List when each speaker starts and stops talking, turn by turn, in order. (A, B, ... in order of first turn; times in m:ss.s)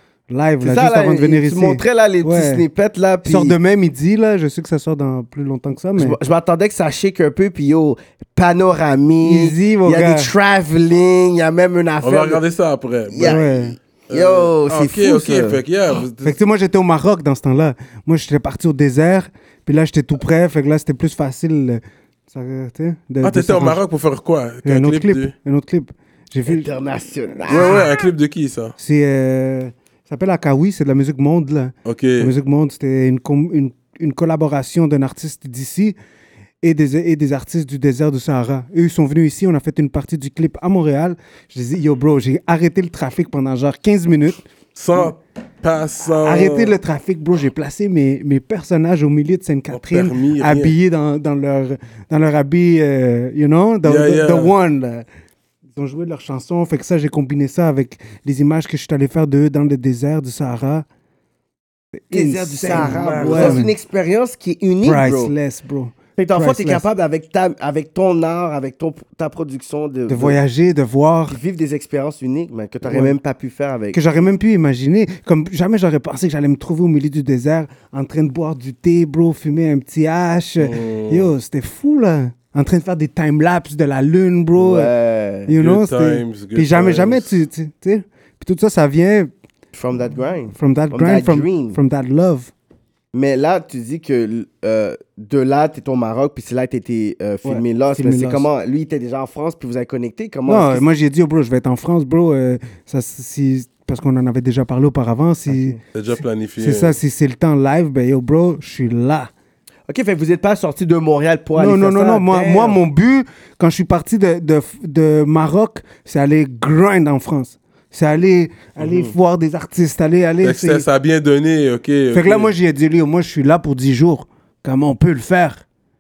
0:00.3-0:02.6 A
0:00.6-0:03.6 B
0:03.2-0:06.2 A
0:06.0-0:12.4 B
0:09.2-0:10.3 A
0:12.0-0:13.4 C
0:13.1-0:15.6 B
0:13.2-0:13.8 A
0:14.1-0:16.4 C
0:16.2-0:23.8 A
0:23.2-0:25.3 C
0:24.6-0:26.7 A
0:26.5-0:27.9 B
0:27.5-0:28.8 C
0:27.5-0:27.8 A
0:28.8-0:36.0 A
0:31.9-0:32.3 C
0:36.6-0:44.4 A
0:44.8-0:46.8 C
0:46.2-0:55.0 A
0:49.7-0:50.8 C
0:53.8-0:54.5 C
0:55.8-1:00.9 A
1:02.0-1:03.7 A
1:02.1-1:05.3 B
1:03.2-1:03.5 C
1:04.8-1:06.9 A
1:06.2-1:10.4 B
1:10.1-1:11.4 A
1:11.3-1:14.0 B
1:12.8-1:13.2 A
1:13.9-1:24.9 A
1:20.6-1:21.3 C
1:24.6-1:25.5 B
1:25.5-1:29.3 A
1:25.5-1:27.3 C
1:29.7-1:31.8 B
1:30.6-1:32.5 A
1:33.1-1:40.8 B
1:37.4-1:38.5 A
1:40.5-1:45.8 A
1:45.5-1:45.8 B
1:45.9-1:47.0 C
1:46.6-1:49.3 A
1:49.9-1:52.8 B
1:51.6-2:00.8 A
1:58.8-1:59.1 B
2:00.4-2:02.5 C
2:02.1-2:05.6 A